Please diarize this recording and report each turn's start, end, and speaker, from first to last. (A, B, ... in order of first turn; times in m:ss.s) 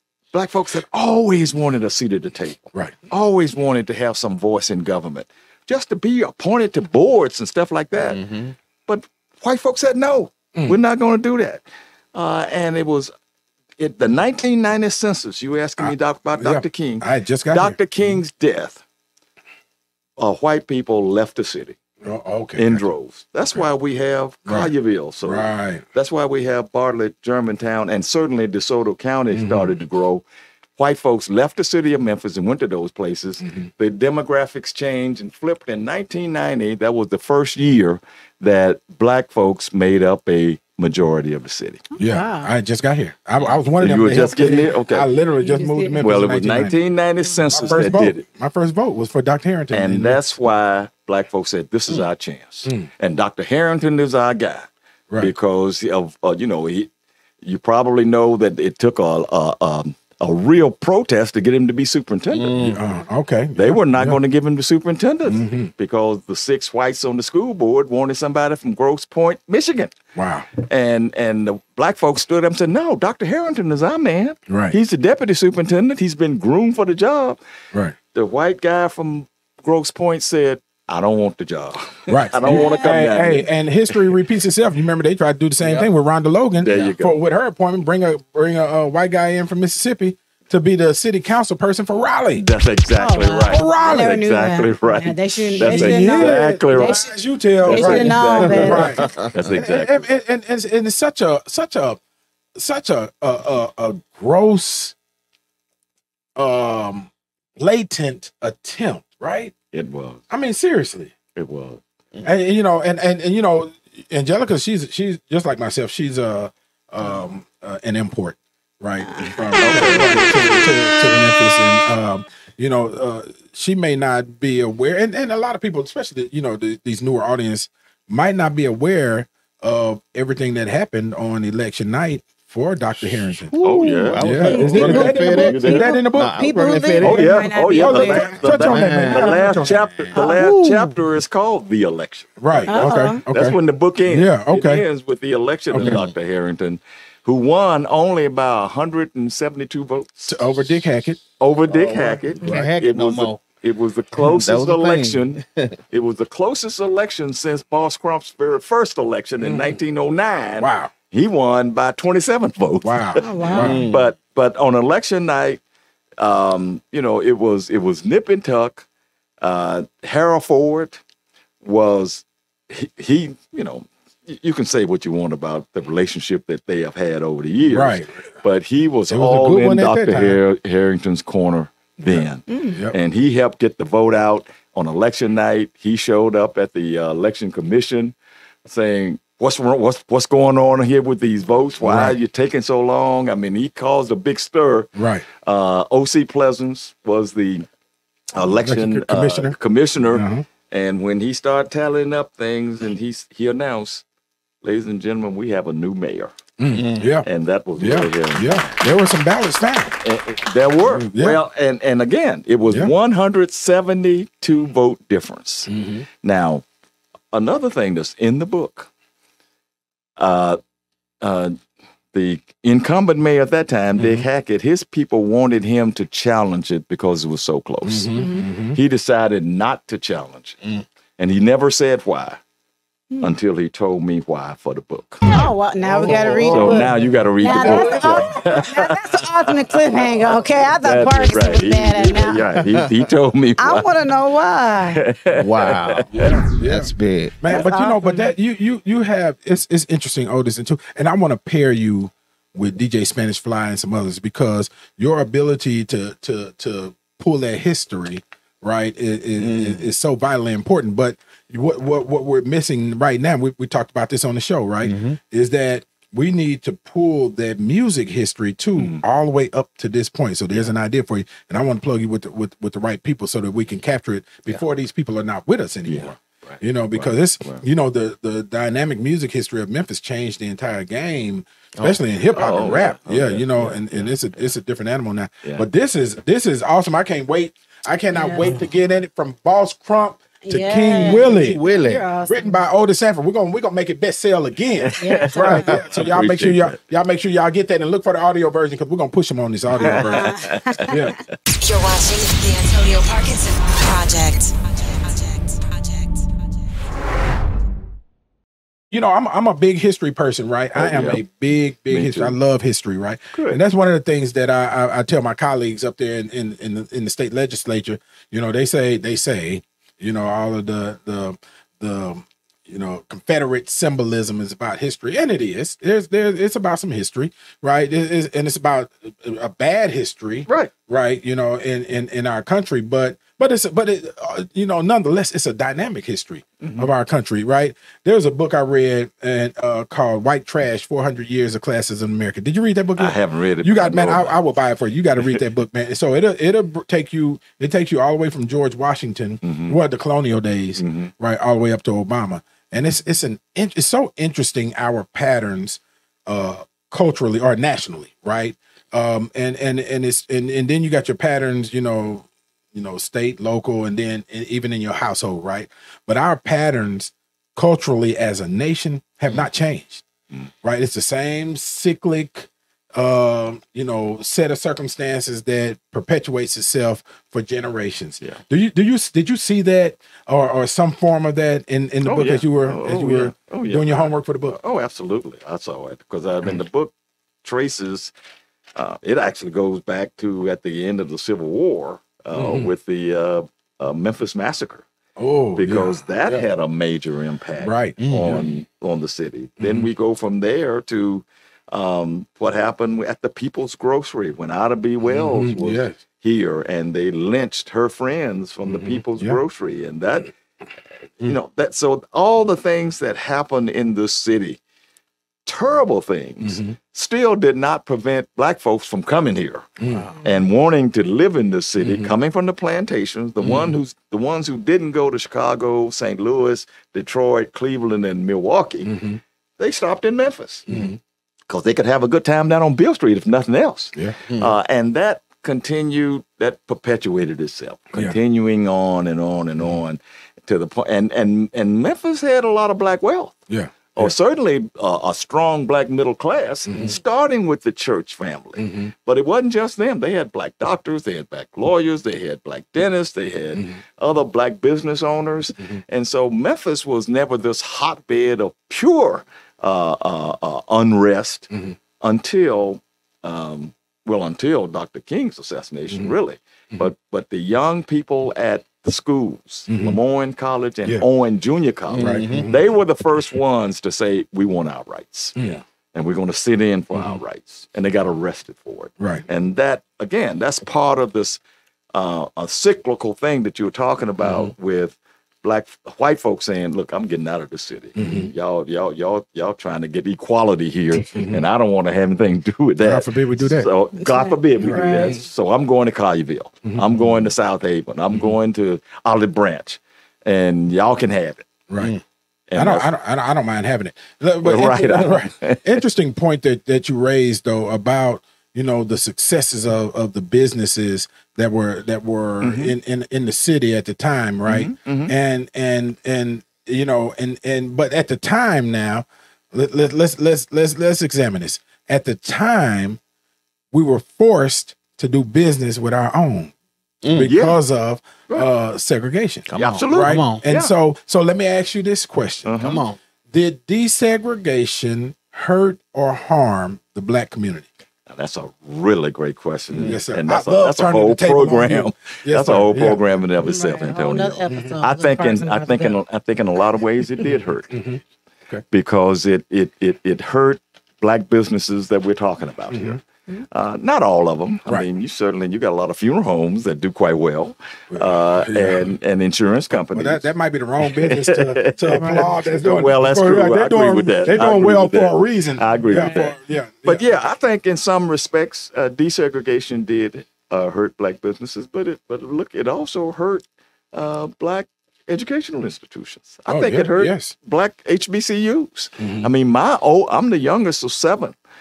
0:00.3-0:08.2 A
0:08.0-0:08.5 B
0:08.9-0:11.6 A
0:12.1-0:13.1 A
0:13.8-0:18.8 A
0:15.8-0:17.8 C
0:20.2-0:21.8 A
0:22.0-0:22.9 C
0:22.6-0:30.2 A
0:24.4-0:25.8 C
0:29.3-0:29.7 C
0:30.8-0:41.8 A
0:42.0-0:42.5 D
0:42.0-0:46.8 C
0:43.8-0:45.1 A
0:45.4-0:46.0 D
0:46.0-0:48.2 A
0:47.5-0:50.2 C
0:49.7-0:56.9 A
0:57.4-1:02.6 A
1:02.3-1:02.8 B
1:02.6-1:04.2 C
1:03.5-1:09.9 A
1:05.2-1:05.7 C
1:10.1-1:10.5 C
1:10.6-1:17.4 A
1:14.5-1:14.8 C
1:18.1-1:24.0 A
1:22.1-1:32.4 C
1:22.4-1:23.0 D
1:25.6-1:25.9 B
1:26.6-1:27.2 A
1:32.3-1:37.1 A
1:33.0-1:37.1 D
1:33.5-1:34.2 C
1:35.6-1:42.0 C
1:37.6-1:40.0 A
1:37.6-1:38.9 D
1:37.9-1:39.5 B
1:42.6-1:44.9 C
1:46.4-1:49.5 C
1:49.7-1:50.2 A
1:50.3-1:51.1 C
1:51.3-1:51.8 A
1:52.2-2:13.5 C
1:59.1-2:00.1 D
1:59.6-2:00.7 A
2:13.1-2:20.5 B
2:13.6-2:15.9 A
2:14.2-2:16.4 C
2:14.4-2:18.4 D
2:17.0-2:30.4 A
2:17.0-2:19.8 C
2:20.2-2:20.7 D
2:22.4-2:23.6 C
2:22.7-2:23.2 D
2:24.1-2:24.8 C
2:25.7-2:26.0 C
2:25.8-2:26.1 B
2:30.2-2:31.2 C
2:31.4-2:45.6 A
2:31.7-2:33.4 B
2:34.2-2:35.8 B
2:39.4-2:39.8 C
2:40.6-2:40.9 C
2:42.8-2:43.8 C
2:43.2-2:43.8 D
2:43.5-2:44.1 B
2:46.2-2:48.8 A
2:49.4-2:51.0 A
2:51.6-3:17.7 A
2:57.6-2:58.1 C
2:59.1-3:00.4 C
3:02.1-3:02.9 C
3:02.5-3:02.7 D
3:11.8-3:12.2 C
3:15.0-3:15.2 C
3:18.3-3:24.0 A
3:18.6-3:19.6 C
3:20.1-3:20.4 C
3:24.6-3:26.3 A
3:26.6-3:27.2 C
3:26.7-3:27.0 B
3:27.2-3:28.8 A
3:27.8-3:30.0 C
3:30.0-3:36.6 A
3:31.1-3:31.4 C
3:35.7-3:36.0 C
3:37.3-3:38.9 A
3:40.2-3:40.6 A
3:41.2-3:41.6 A
3:42.1-3:50.6 A
3:47.8-3:48.8 C
3:48.2-3:48.5 D
3:51.2-3:52.4 A
3:53.2-3:55.2 A
3:55.2-4:02.5 D
3:56.0-4:03.9 A
3:56.0-3:56.7 B
3:56.0-3:56.9 C
3:57.6-3:58.4 C
4:02.5-4:02.9 B
4:03.6-4:05.0 D
4:04.8-4:06.4 A
4:05.3-4:07.4 B
4:06.1-4:51.6 C
4:07.5-4:08.3 D
4:19.4-4:19.9 B
4:24.8-4:25.2 B
4:28.8-4:29.0 A
4:35.8-4:37.6 A
4:42.3-4:44.2 A
4:48.1-4:48.5 D
4:50.4-4:52.6 D
4:51.0-4:52.1 B
4:52.2-5:00.3 C
4:54.8-4:56.8 A
4:55.0-4:55.7 D
4:59.8-5:00.8 A
4:59.9-5:00.8 D
5:00.9-5:01.2 C
5:01.6-5:07.0 E
5:08.9-6:10.0 C
5:10.8-5:11.2 A
5:11.9-5:12.4 A
5:13.3-5:13.6 A
5:36.6-5:36.9 A
5:43.0-5:44.4 A
5:49.4-5:49.8 A
5:50.8-5:51.1 A
6:10.6-6:24.6 C
6:22.0-6:26.9 A
6:27.4-6:28.1 A
6:28.7-6:34.8 A
6:32.3-6:32.7 C
6:35.2-6:36.4 C
6:35.5-6:50.3 A
6:37.6-6:38.4 C
6:38.0-6:38.4 B
6:39.6-6:39.9 C
6:45.1-6:46.0 C
6:48.6-6:49.4 C
6:51.2-6:54.6 A
6:55.4-7:09.0 A
6:56.4-6:56.8 C
6:59.8-7:00.1 C
7:01.8-7:02.1 C
7:08.8-7:09.2 C
7:09.6-7:10.7 A
7:10.7-7:11.0 C
7:11.5-7:23.4 A
7:13.9-7:14.2 C
7:14.3-7:14.5 B
7:23.5-7:24.1 C
7:23.9-7:41.5 A
7:26.7-7:26.9 C
7:28.6-7:28.9 C
7:33.5-7:33.8 C
7:42.0-8:01.4 A
7:49.7-7:50.0 C
7:51.9-7:52.4 B
7:52.0-7:52.6 C
7:55.4-7:55.6 C
8:01.9-8:21.4 A
8:08.0-8:08.3 C
8:11.1-8:11.4 C
8:12.8-8:13.7 C
8:14.0-8:15.2 D
8:14.6-8:15.1 C
8:16.6-8:17.0 C
8:21.7-8:21.9 C
8:22.5-8:22.9 A
8:22.6-8:43.0 C
8:24.4-8:25.8 A
8:32.4-8:32.7 A
8:34.4-8:35.1 A
8:43.7-8:46.5 C
8:47.0-8:47.3 B
8:47.1-8:47.6 A
8:47.1-8:52.6 C
8:49.5-8:50.4 B
8:49.5-8:50.7 A
8:52.4-8:52.8 A
8:52.6-8:53.0 B
8:53.3-8:57.7 C
8:58.1-9:07.8 A
8:59.8-9:03.0 C
9:03.4-9:06.0 D
9:04.5-9:04.7 C
9:07.7-9:08.6 C
9:08.7-9:13.0 A
9:12.7-9:13.0 C
9:13.5-9:20.3 A
9:17.9-9:19.0 C
9:19.7-9:27.0 C
9:20.8-9:41.4 A
9:36.5-9:37.3 C
9:39.0-9:39.3 C